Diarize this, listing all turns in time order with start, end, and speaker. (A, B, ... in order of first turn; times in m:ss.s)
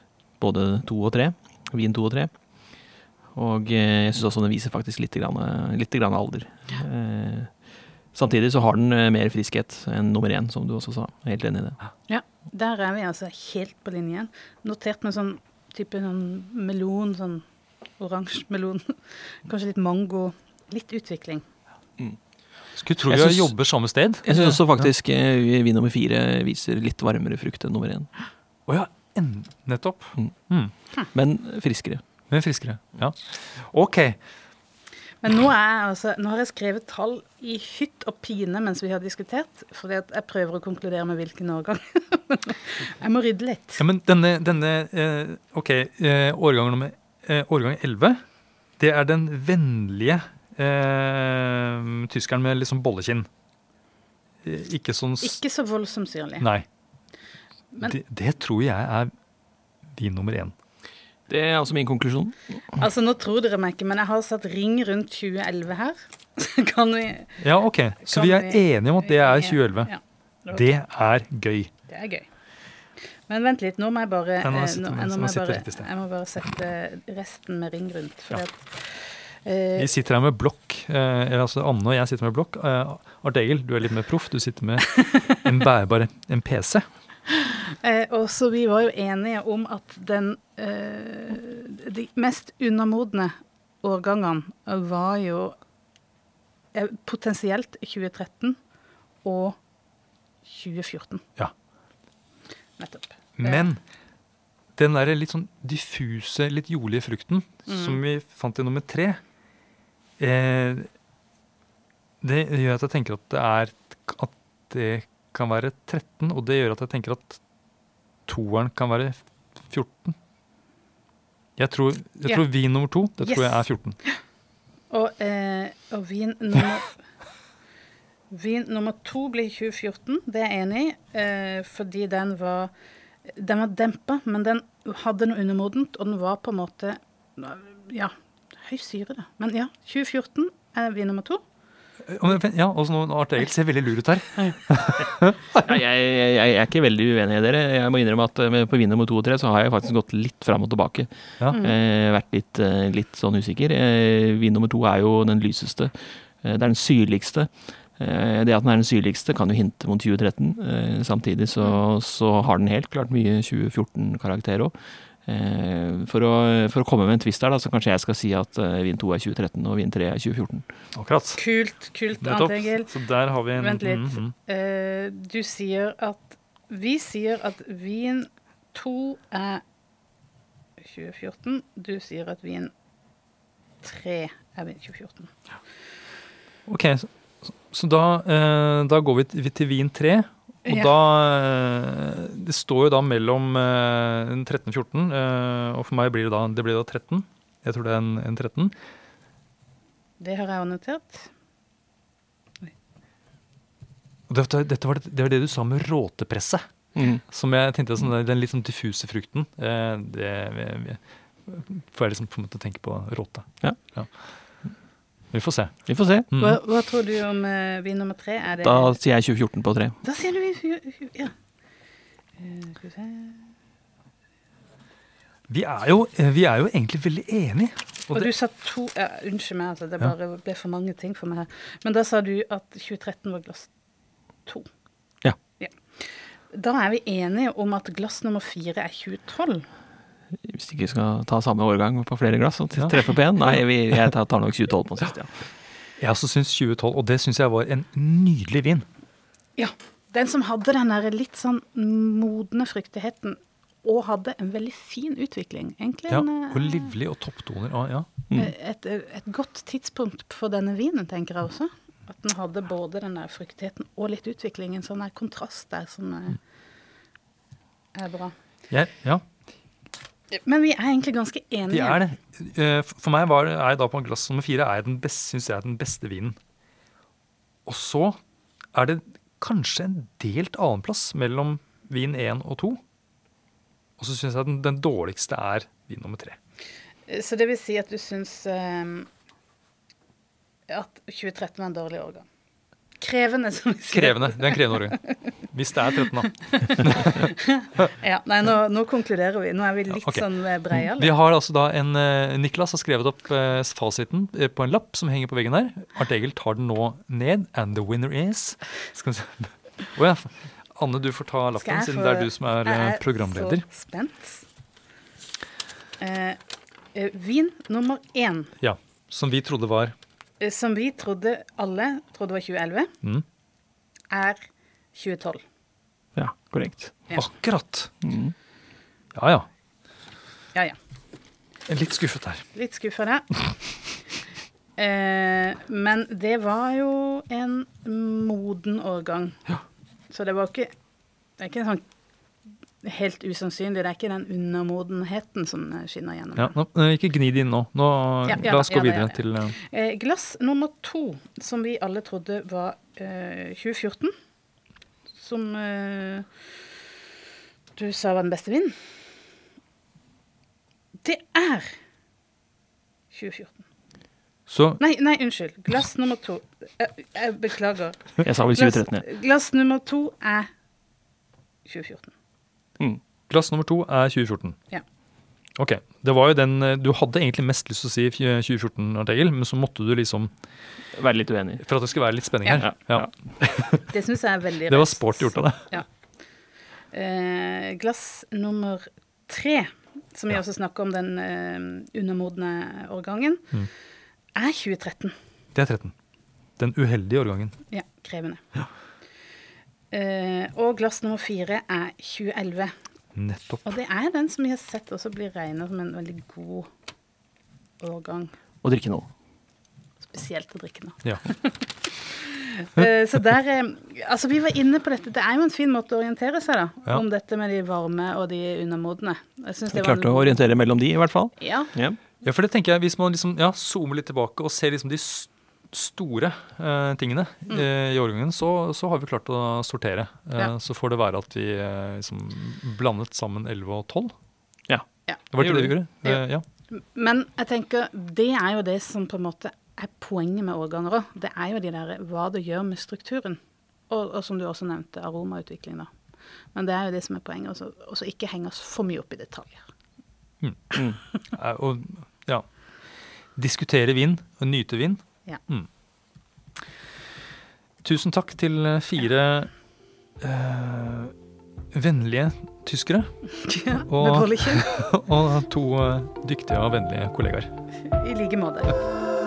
0:00.4-0:11.8 A
0:12.1-0:17.4 B
0:18.0-0:21.4 B
0:22.7-0:24.9 C
0:23.1-0:23.6 A
0:24.2-0:28.1 A
0:28.7-0:30.7 C
0:30.2-0:30.5 A
0:31.1-0:32.0 A
0:32.3-0:34.2 C
0:35.2-0:43.8 B
0:43.8-0:48.2 C
0:48.8-0:53.3 C
0:54.4-0:55.4 C
0:55.2-0:56.4 B
0:56.4-0:56.6 C
0:57.8-0:59.1 C
0:59.9-1:00.5 C
1:01.3-1:02.8 A
1:02.8-1:07.4 B
1:07.4-1:09.9 C
1:08.0-1:10.6 B
1:10.5-1:11.7 C
1:11.9-1:12.3 B
1:13.2-1:19.9 B
1:14.4-1:15.9 C
1:19.8-1:26.8 C
1:27.8-1:35.6 B
1:36.7-1:38.6 B
1:39.2-1:39.6 B
1:40.4-1:41.2 B
1:42.8-1:43.7 B
1:43.4-1:43.8 C
1:44.8-1:49.2 C
1:47.7-1:48.0 B
1:50.2-1:50.9 C
1:52.2-1:57.4 C
1:58.3-2:00.2 C
2:01.6-2:04.0 C
2:03.2-2:04.2 B
2:04.9-2:07.0 B
2:08.3-2:12.7 B
2:13.2-2:21.4 B
2:22.1-2:25.7 C
2:25.6-2:50.7 A
2:50.9-2:51.4 C
2:51.4-2:52.9 B
2:52.2-2:54.3 C
2:53.6-2:59.6 B
3:00.8-3:02.7 B
3:03.8-3:05.3 B
3:06.6-3:18.7 C
3:10.6-3:10.9 B
3:20.2-3:21.3 B
3:24.3-3:26.7 C
3:26.9-3:27.2 A
3:27.3-3:34.6 C
3:35.3-3:36.6 C
3:35.9-3:36.3 A
3:36.4-3:38.9 B
3:38.6-3:40.0 A
3:40.0-3:41.3 B
3:42.4-3:43.5 B
3:45.5-3:48.3 C
3:48.1-3:53.7 B
3:55.6-3:59.6 B
4:00.4-4:05.4 A
4:06.0-4:08.9 C
4:09.6-4:16.9 B
4:16.1-4:18.1 C
4:18.3-4:26.4 B
4:27.9-4:28.3 B
4:28.7-4:29.2 C
4:30.3-4:32.0 B
4:31.7-4:36.4 C
4:37.6-4:38.2 C
4:38.7-4:42.8 C
4:44.0-4:46.4 C
4:47.1-4:49.1 B
4:50.7-4:52.2 B
4:53.0-4:55.3 B
4:53.9-4:57.3 C
4:56.0-5:01.1 B
5:00.0-5:13.6 C
5:11.6-5:14.4 B
5:16.0-5:16.4 B
5:16.9-5:18.5 B
5:18.6-5:19.9 C
5:20.4-5:22.9 B
5:24.1-5:25.4 B
5:26.1-5:27.0 A
5:27.2-5:27.9 C
5:28.0-5:28.3 A
5:29.1-5:29.5 C
5:31.7-5:32.5 C
5:32.5-5:33.4 B
5:34.8-5:39.4 B
5:40.1-5:40.7 B
5:41.4-5:41.8 B
5:42.8-5:46.5 B
5:46.4-5:49.6 C
5:48.2-5:54.1 B
5:55.2-5:56.3 B
5:57.8-5:58.8 B
6:01.0-6:01.8 B
6:03.1-6:03.6 B
6:04.5-6:04.8 C
6:04.8-6:10.5 B
6:08.2-6:09.0 A
6:11.6-6:12.1 B
6:13.3-6:14.6 C
6:15.6-6:20.3 C
6:20.9-6:21.6 A
6:21.6-6:24.0 C
6:22.6-6:23.1 A
6:23.9-6:25.9 B
6:24.7-6:25.7 C
6:26.9-6:33.5 B
6:34.3-6:35.1 B
6:35.5-6:35.9 C
6:36.6-6:37.6 C
6:37.7-6:38.4 B
6:39.9-6:42.7 B
6:43.1-6:43.7 C
6:43.6-6:46.7 B
6:47.8-6:48.3 B
6:48.6-6:49.1 A
6:50.1-7:00.4 B
6:59.7-7:02.0 A
7:01.4-7:01.7 B
7:02.2-7:14.1 C
7:15.3-7:16.4 C
7:15.4-7:15.7 A
7:16.0-7:25.9 B
7:26.5-7:29.6 B
7:30.4-7:32.7 C
7:33.3-7:35.7 C
7:37.8-7:39.6 C
7:40.2-7:41.1 C
7:41.7-7:47.5 C
7:43.4-7:44.6 B
7:47.8-7:48.7 B